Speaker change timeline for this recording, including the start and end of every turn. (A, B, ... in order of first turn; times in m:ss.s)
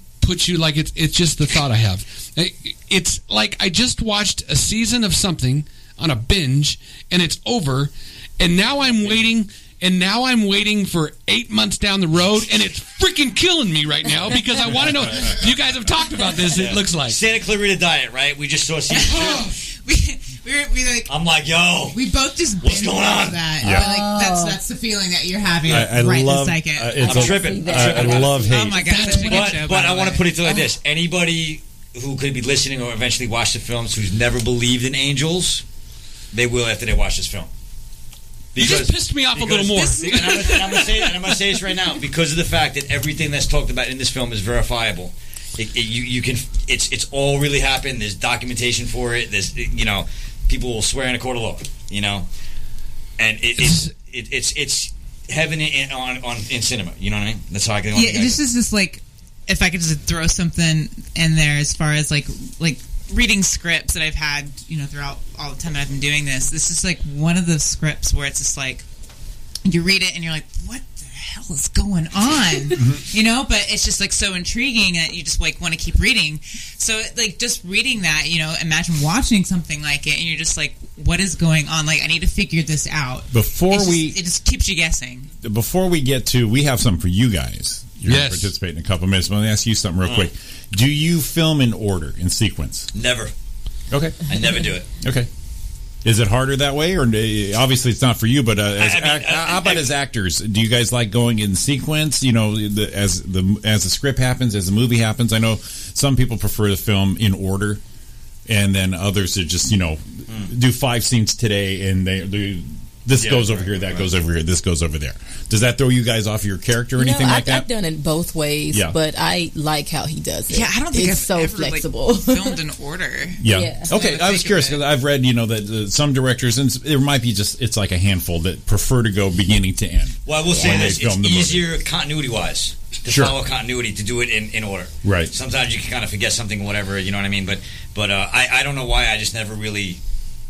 0:00.2-0:17.2 A
0:08.8-0:09.3 B
0:16.5-0:19.5 B
0:18.9-0:21.1 C
0:21.1-0:22.0 B
0:21.9-0:27.4 C
0:22.6-0:23.4 B
0:23.6-0:23.9 D
0:23.6-0:24.6 E
0:25.7-0:28.9 D
0:27.0-0:28.5 B
0:27.0-0:29.3 E
0:28.0-0:30.4 C
0:28.7-0:29.6 A
0:29.1-0:35.6 B
0:36.3-0:37.5 B
0:38.5-0:52.3 B
0:38.6-0:40.5 A
0:39.7-0:41.2 C
0:53.2-0:58.4 B
0:53.6-0:53.9 A
0:57.9-1:08.8 C
1:09.6-1:25.3 C
1:23.3-1:24.2 D
1:25.4-1:32.9 D
1:28.0-1:28.5 A
1:30.0-1:30.3 B
1:32.9-1:33.3 B
1:33.9-1:34.3 D
1:34.3-1:34.9 B
1:35.0-1:35.3 D
1:36.0-1:47.8 D
1:38.7-1:39.9 B
1:48.5-1:57.7 D
1:53.2-1:54.1 B
1:57.0-2:02.6 E
2:00.5-2:04.9 C
2:03.4-2:11.7 D
2:03.4-2:03.9 E
2:10.2-2:20.0 B
2:10.5-2:10.9 E
2:13.1-2:13.4 D
2:15.0-2:15.3 D